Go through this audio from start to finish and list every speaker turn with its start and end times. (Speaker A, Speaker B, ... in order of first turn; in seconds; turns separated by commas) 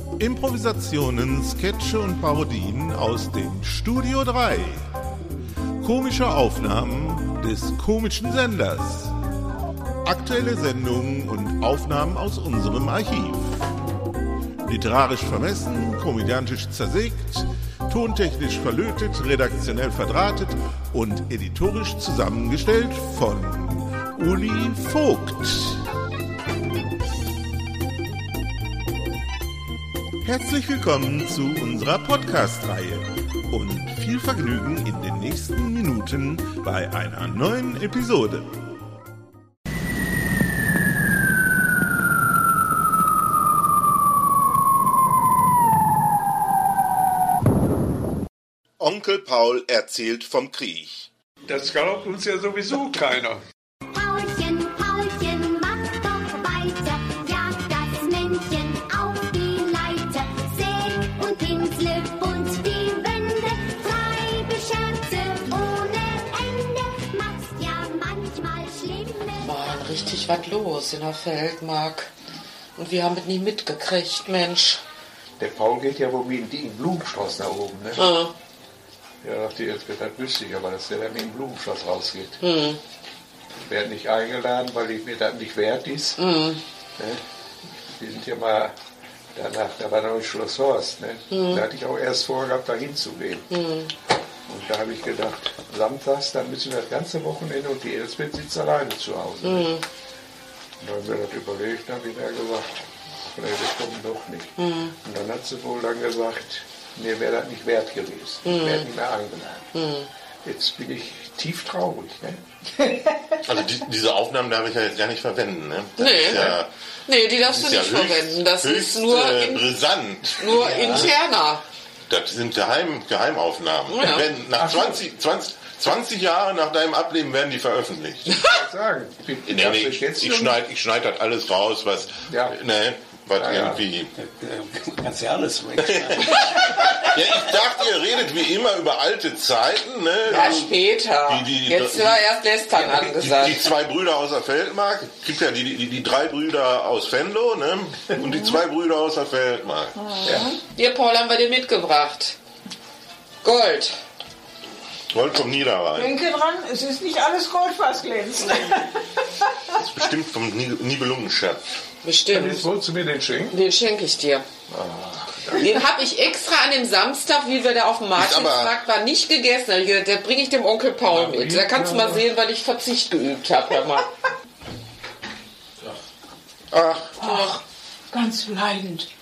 Speaker A: 0.2-4.8, Speaker A: 5.8-9.1, Speaker A: 10.0-13.6, Speaker A: 14.6-25.8, Speaker A: 30.2-38.6, Speaker A: 48.8-51.0, Speaker B: 51.5-53.4, Speaker C: 53.9-69.5, Speaker D: 69.4-72.1, Speaker D: 72.8-74.8, Speaker B: 75.4-78.0, Speaker D: 78.0-78.3, Speaker B: 79.2-82.4, Speaker D: 82.4-82.8, Speaker B: 83.6-86.2, Speaker D: 86.2-86.6, Speaker B: 87.9-88.7, Speaker B: 89.3-93.5, Speaker D: 91.3-91.6, Speaker D: 93.5-93.9, Speaker B: 94.5-99.7, Speaker D: 99.4-99.8, Speaker B: 100.8-109.7, Speaker D: 104.6-104.9, Speaker D: 108.4-108.8, Speaker D: 109.7-110.1, Speaker B: 110.4-112.4, Speaker E: 113.5-116.7, Speaker D: 116.0-119.7, Speaker E: 117.4-121.0, Speaker D: 120.4-121.6, Speaker F: 120.6-121.1, Speaker E: 122.1-128.3, Speaker D: 123.9-124.3, Speaker B: 124.5-125.0, Speaker B: 128.4-130.6, Speaker E: 129.5-134.1, Speaker B: 132.2-132.6, Speaker B: 133.3-133.8, Speaker F: 134.2-137.0, Speaker E: 135.8-142.3, Speaker D: 140.2-143.7, Speaker E: 142.8-149.9, Speaker B: 150.2-150.5, Speaker D: 150.7-152.4, Speaker D: 153.4-153.9, Speaker E: 155.1-156.2, Speaker G: 155.9-158.8, Speaker E: 159.8-161.6, Speaker D: 162.0-162.7, Speaker B: 162.3-163.6, Speaker D: 163.5-164.4, Speaker B: 164.7-165.7, Speaker D: 165.5-174.1, Speaker E: 168.2-168.8, Speaker B: 171.1-172.3, Speaker D: 177.2-177.6, Speaker G: 178.1-179.1